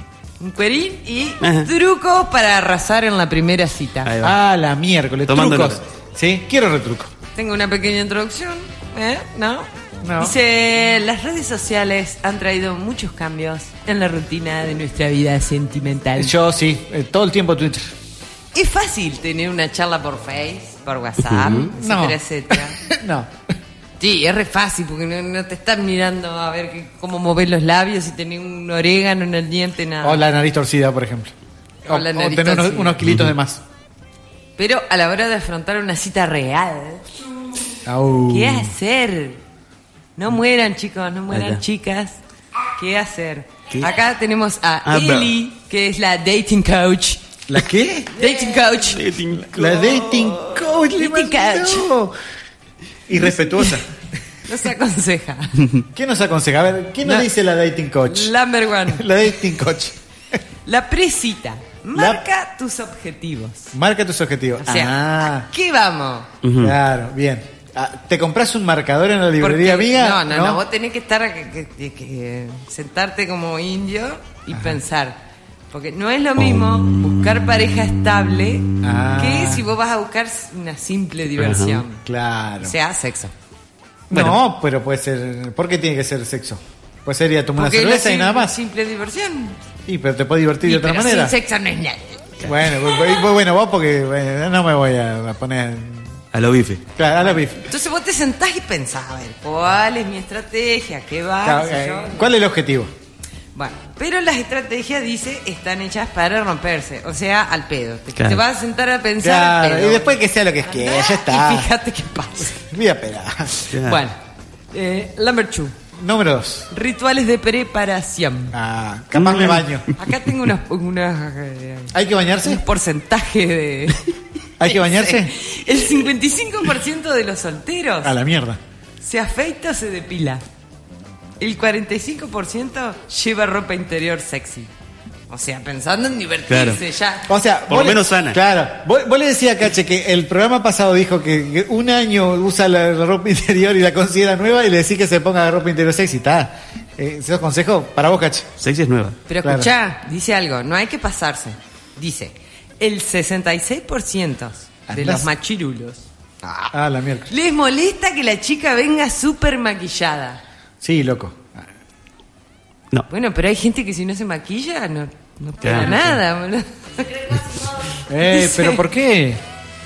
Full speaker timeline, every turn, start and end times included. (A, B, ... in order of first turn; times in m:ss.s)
0:00.4-0:04.1 A
0:01.4-0:01.7 B
0:04.0-0:04.4 B
0:04.2-0:07.1 C
0:05.3-0:05.8 B
0:07.4-0:16.4 A
0:10.0-0:10.4 C
0:16.2-0:17.9 C
0:18.5-0:22.8 A
0:21.3-0:21.7 B
0:21.7-0:23.3 C
0:24.0-0:30.2 A
0:30.0-0:31.3 C
0:31.9-0:33.0 A
0:31.9-0:33.6 C
0:33.0-0:33.3 B
0:34.6-0:37.1 A
0:37.9-0:38.7 C
0:38.3-0:39.4 A
0:40.2-0:42.2 A
0:41.3-0:41.6 B
0:42.8-0:47.2 A
0:44.9-0:45.3 B
0:47.5-0:48.2 C
0:48.1-0:49.0 A
0:48.6-0:50.6 B
0:49.3-0:52.1 C
0:50.9-0:51.9 A
0:53.1-0:53.9 C
0:54.5-0:55.7 A
0:55.9-0:58.3 C
0:58.1-0:59.1 A
0:58.9-1:00.0 C
1:00.7-1:03.7 A
1:01.9-1:02.2 C
1:03.7-1:05.5 C
1:04.6-1:06.3 A
1:06.4-1:06.8 B
1:06.6-1:10.6 C
1:09.4-1:15.2 A
1:14.5-1:14.8 C
1:15.7-1:22.0 A
1:16.4-1:17.9 B
1:18.8-1:19.7 C
1:21.4-1:21.8 B
1:22.0-1:22.8 C
1:22.6-1:23.3 A
1:24.1-1:28.6 C
1:24.1-1:24.4 B
1:27.6-1:29.6 A
1:29.9-1:31.4 C
1:30.6-1:32.2 A
1:32.4-1:36.1 C
1:36.3-1:36.8 B
1:37.0-1:37.7 C
1:37.2-1:42.3 A
1:41.4-1:42.9 C
1:43.6-1:52.6 A
1:48.2-1:48.4 B
1:49.2-1:51.7 C
1:52.5-1:53.6 C
1:53.7-1:54.0 B
1:53.7-1:54.2 A
1:54.7-1:55.8 A
1:56.0-1:56.7 C
1:56.7-1:58.6 A
1:58.5-1:59.9 C
1:59.1-1:59.7 B
2:00.0-2:04.0 A
2:01.9-2:02.6 C
2:04.6-2:05.3 C
2:04.6-2:08.2 A
2:08.0-2:08.6 C
2:09.0-2:10.4 A
2:11.4-2:14.7 A
2:15.3-2:17.3 A
2:16.5-2:16.8 B
2:17.3-2:28.5 C
2:17.7-2:18.4 B
2:28.6-2:29.2 B
2:29.3-2:36.1 A
2:29.4-2:29.7 C
2:34.9-2:35.3 C
2:36.5-2:37.3 C
2:37.3-2:40.4 A
2:40.8-2:41.7 C
2:43.1-2:48.8 A
2:45.6-2:46.1 B
2:48.1-2:49.4 C